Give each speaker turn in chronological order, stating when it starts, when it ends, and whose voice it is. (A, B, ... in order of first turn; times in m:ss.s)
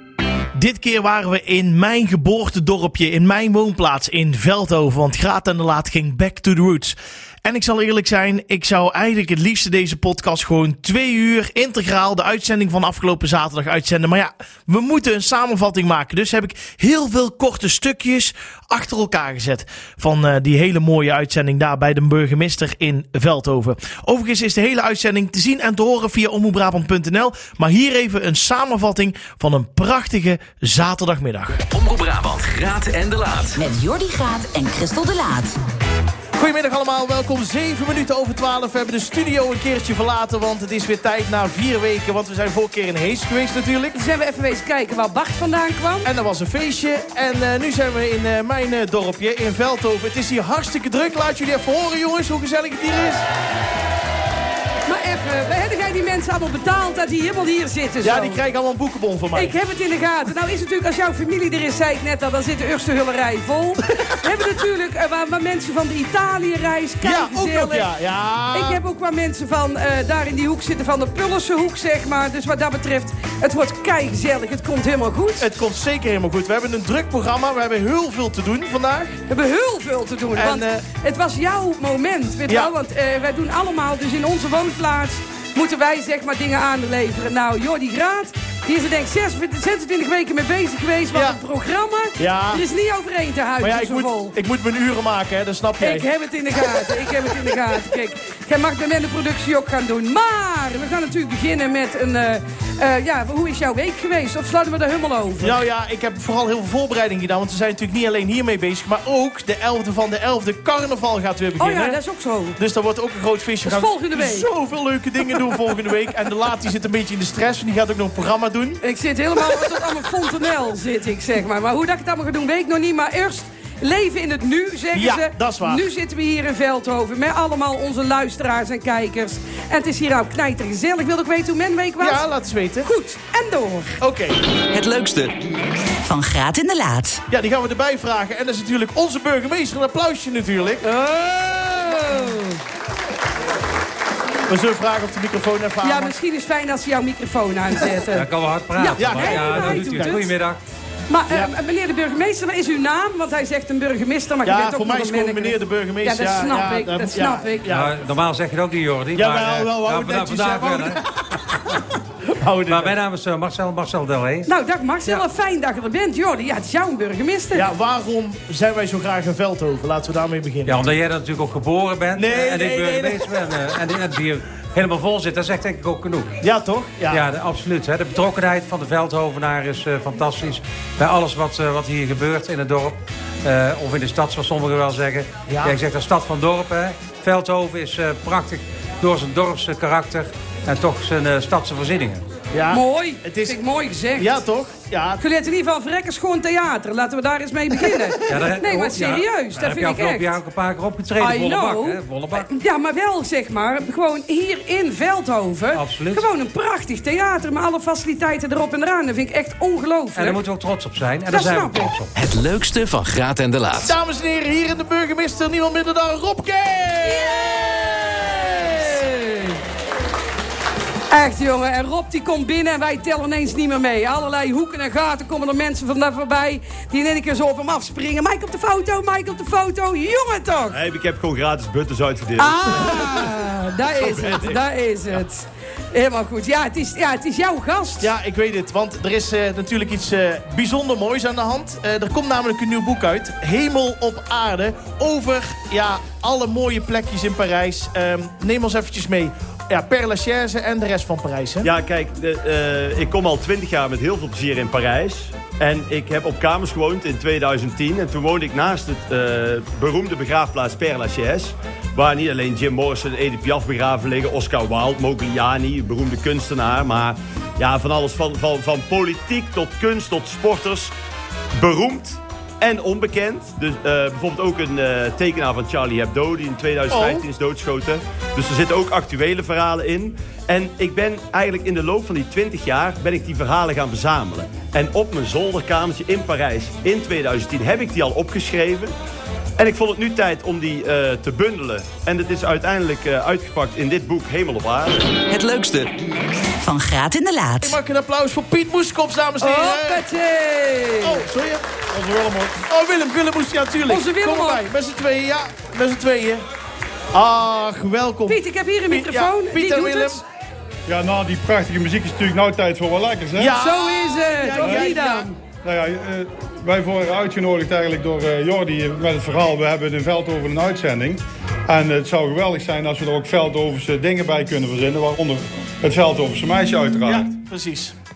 0:00.6-0:31.6 A
0:31.6-0:33.6 B
0:33.6-0:35.6 C
0:36.4-0:44.0 A
0:43.9-0:46.1 D
0:46.0-0:53.2 A
0:54.8-0:58.4 D
0:58.0-0:59.6 A
0:59.3-1:07.9 D
1:07.0-1:08.8 A
1:08.5-1:15.5 D
1:15.4-1:19.2 A
1:19.3-1:34.4 D
1:20.3-1:20.8 A
1:31.1-1:31.4 A
1:32.2-1:32.6 A
1:33.6-1:36.1 A
1:35.8-1:45.6 D
1:45.4-1:52.0 A
1:51.6-1:52.6 D
1:52.6-1:58.8 A
1:53.7-1:54.5 D
1:58.8-2:12.2 D
2:04.9-2:05.8 A
2:12.0-2:12.9 A
2:12.8-2:14.0 D
2:14.0-2:14.4 A
2:14.7-2:15.3 B
2:16.0-2:17.2 C
2:17.3-2:20.8 A
2:20.8-2:22.6 D
2:24.5-2:26.1 A
2:25.8-2:30.3 D
2:28.1-2:30.6 E
2:29.0-2:30.3 A
2:31.1-2:37.7 D
2:34.4-2:37.9 A
2:37.7-2:41.0 E
2:39.2-2:41.2 A
2:42.3-2:43.0 A
2:42.7-2:44.5 E
2:44.4-2:47.7 D
2:47.5-2:50.8 A
2:50.7-2:56.4 E
2:52.2-2:53.2 A
2:56.4-2:57.2 A
2:57.1-3:12.2 E
3:05.5-3:05.8 A
3:12.5-3:13.6 A
3:12.7-3:14.4 D
3:14.2-3:15.2 A
3:15.2-3:20.4 D
3:18.3-3:22.5 E
3:21.2-3:30.4 D
3:25.7-3:26.3 E
3:30.1-3:32.1 E
3:31.3-3:32.0 D
3:32.1-3:33.9 B
3:33.7-3:37.5 A
3:37.0-3:39.6 D
3:41.1-3:50.8 D
3:50.7-3:54.6 F
3:52.4-3:58.1 D
3:58.0-4:11.7 A
4:11.6-4:30.9 F
4:31.6-4:48.9 F
4:36.9-4:37.2 A
4:49.6-4:55.2 F
4:55.3-4:55.9 B
4:56.6-4:57.8 C
4:57.6-5:00.0 A
4:59.4-5:01.2 D
5:01.0-5:01.6 A
5:01.9-5:02.6 G
5:02.7-5:06.4 A
5:03.9-5:04.6 D
5:07.1-5:10.2 A
5:08.3-5:10.2 D
5:10.9-5:13.6 G
5:13.4-5:15.3 A
5:13.6-5:15.4 D
5:14.6-5:15.0 G
5:15.6-5:27.3 G
5:27.0-5:27.9 A